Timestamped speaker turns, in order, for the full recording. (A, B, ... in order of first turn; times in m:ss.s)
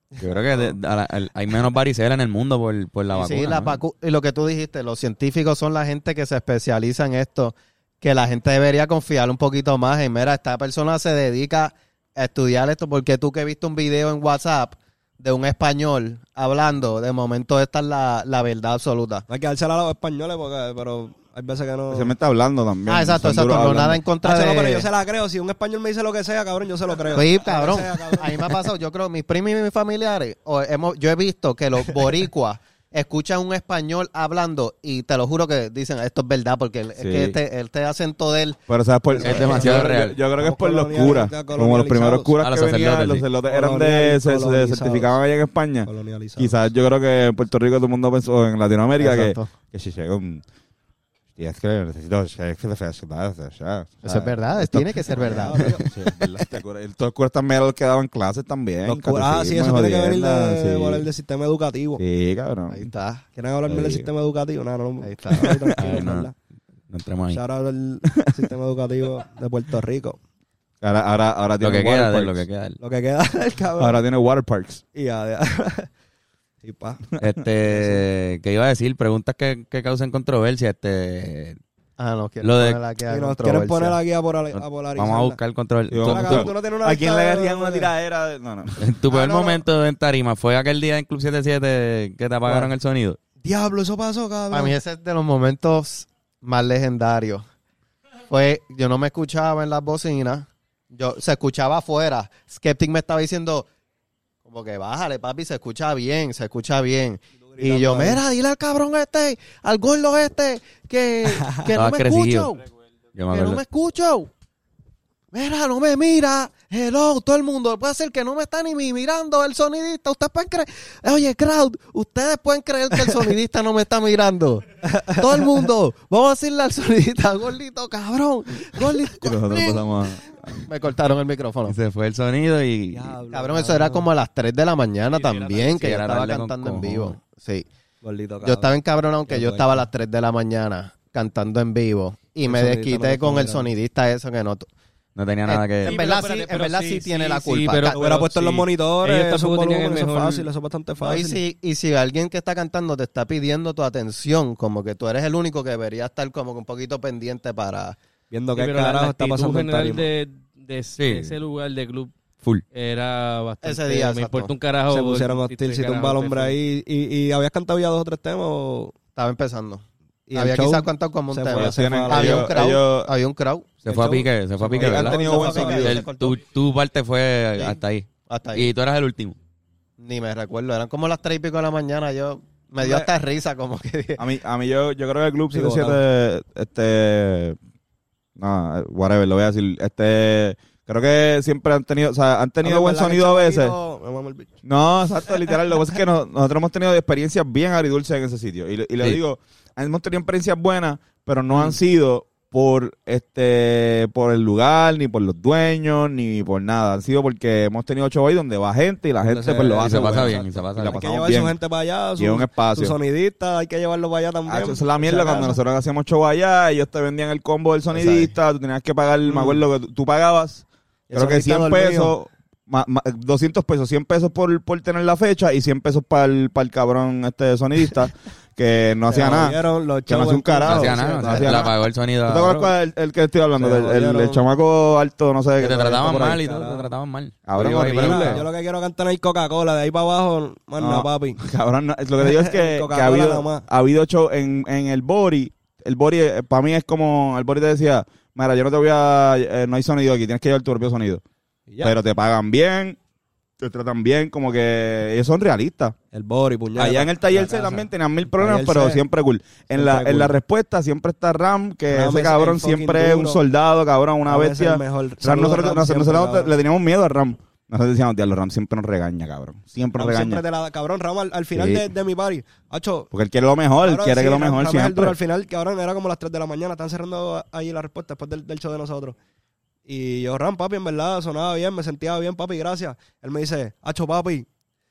0:00.2-0:03.8 A
0:03.1-0:19.2 B
0:19.3-0:22.1 C
0:21.9-0:24.0 D
0:22.9-0:24.9 B
0:24.2-0:28.5 C
0:27.1-0:38.6 B
0:37.0-0:37.4 D
0:38.7-0:50.4 D
0:39.2-0:42.3 C
0:39.2-0:40.2 A
0:42.4-0:43.2 A
0:43.5-0:45.1 C
0:45.8-0:46.7 C
0:49.0-0:49.5 B
0:51.4-1:01.0 D
0:54.0-0:55.8 B
0:55.1-0:55.9 C
0:58.8-1:02.0 C
1:02.0-1:02.9 D
1:02.7-1:03.2 B
1:03.3-1:06.3 C
1:03.7-1:04.1 D
1:05.0-1:05.6 B
1:05.4-1:06.0 D
1:05.8-1:06.3 A
1:06.9-1:07.4 A
1:07.3-1:10.2 C
1:10.8-1:12.4 D
1:11.6-1:12.8 A
1:12.8-1:14.0 C
1:13.8-1:14.8 D
1:14.9-1:15.9 C
1:16.6-1:17.0 C
1:17.2-1:21.6 A
1:17.7-1:18.0 C
1:22.0-1:24.0 B
1:22.4-1:22.8 A
1:23.1-1:25.4 C
1:24.5-1:26.5 A
1:25.9-1:28.8 D
1:26.0-1:27.9 C
1:28.8-1:33.2 A
1:33.4-1:34.8 C
1:34.5-1:37.4 B
1:38.3-1:43.7 B
1:44.4-1:52.6 B
1:47.4-1:48.2 C
1:51.3-1:51.7 C
1:51.7-1:52.5 A
1:53.2-1:53.6 A
1:53.3-1:54.3 B
1:55.3-2:09.9 B
2:04.8-2:05.7 C
2:09.0-2:10.6 D
2:10.6-2:11.7 B
2:11.6-2:13.1 A
2:12.9-2:14.1 C
2:13.3-2:17.7 B
2:15.2-2:15.7 E
2:15.7-2:17.1 A
2:18.0-2:19.8 C
2:18.4-2:24.7 B
2:22.4-2:23.7 C
2:25.2-2:26.1 A
2:25.5-2:28.0 B
2:25.8-2:30.5 E
2:27.9-2:31.4 C
2:31.0-2:38.0 B
2:38.3-2:40.1 C
2:38.5-2:46.6 E
2:41.0-2:41.4 A
2:43.6-2:44.5 B
2:44.9-2:48.9 C
2:49.2-2:49.8 B
2:50.3-2:52.5 C
2:50.3-2:53.7 B
2:51.5-2:53.1 D
2:53.8-2:59.4 A
2:53.8-2:56.3 C
2:54.7-2:56.1 D
2:58.3-2:58.7 B
3:00.0-3:04.2 B
3:02.8-3:03.1 C
3:04.2-3:07.6 D
3:05.5-3:06.0 C
3:08.4-3:13.7 D
3:12.6-3:14.5 C
3:14.6-3:31.6 D
3:29.2-3:35.6 C
3:29.8-3:31.0 A
3:32.2-3:32.9 D
3:34.5-3:51.7 D
3:37.9-3:38.3 C
3:39.2-3:39.6 C
3:41.1-3:42.1 C
3:49.1-3:51.7 C
3:50.6-3:52.7 A
3:52.2-3:56.4 D
3:53.6-3:54.4 C
3:55.6-3:58.4 A
3:56.4-3:56.9 C
3:57.5-3:58.4 D
3:57.8-4:01.4 C
4:00.8-4:11.2 D
4:02.2-4:03.6 C
4:11.7-4:12.0 C
4:11.8-4:13.0 D
4:13.6-4:15.9 D
4:16.1-4:19.0 C
4:16.8-4:30.4 D
4:19.7-4:20.4 C
4:21.9-4:23.4 C
4:24.2-4:26.5 C
4:30.0-4:33.1 C
4:31.5-4:31.9 D
4:33.1-4:35.2 D
4:33.8-4:39.2 C
4:39.9-4:44.5 C